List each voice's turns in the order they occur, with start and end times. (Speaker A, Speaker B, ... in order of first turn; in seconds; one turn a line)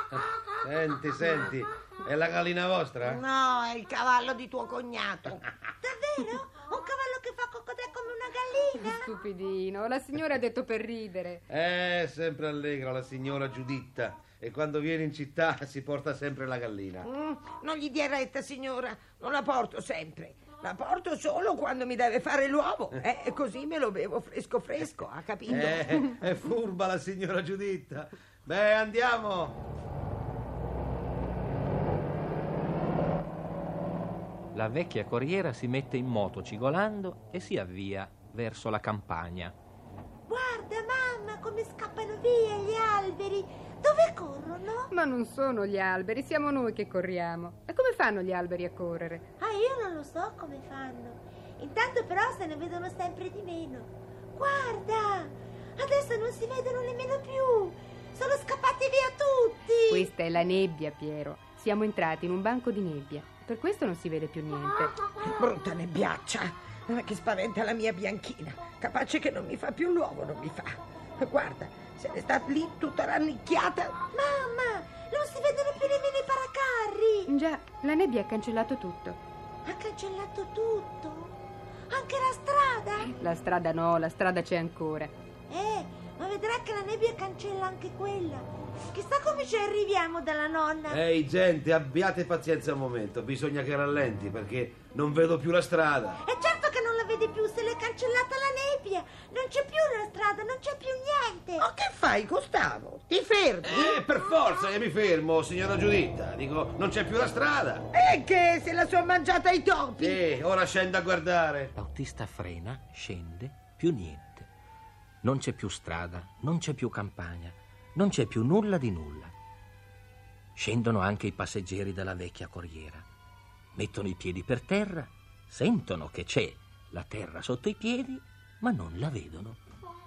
Speaker A: 0.6-3.2
Speaker B: 3.0-5.5
Speaker C: 5.8-9.2
Speaker D: 8.8-11.4
Speaker A: 11.5-17.1
Speaker B: 17.0-26.0
Speaker A: 25.5-29.6
Speaker E: 34.5-39.5
Speaker C: 40.3-44.9
Speaker D: 44.9-49.2
Speaker C: 49.4-60.1
Speaker D: 59.9-64.9
Speaker B: 65.2-74.0
Speaker C: 74.1-77.3
Speaker D: 77.3-79.2
Speaker C: 79.7-81.4
Speaker C: 81.9-83.1
Speaker D: 83.2-85.1
Speaker C: 85.5-91.0
Speaker A: 90.9-96.2
Speaker C: 96.2-101.7
Speaker B: 101.6-104.0
Speaker A: 103.6-107.9
Speaker B: 107.9-110.2
Speaker A: 110.0-111.7
Speaker E: 111.8-114.5
Speaker E: 115.2-119.3
Speaker E: 120.5-123.0
Speaker E: 123.7-129.6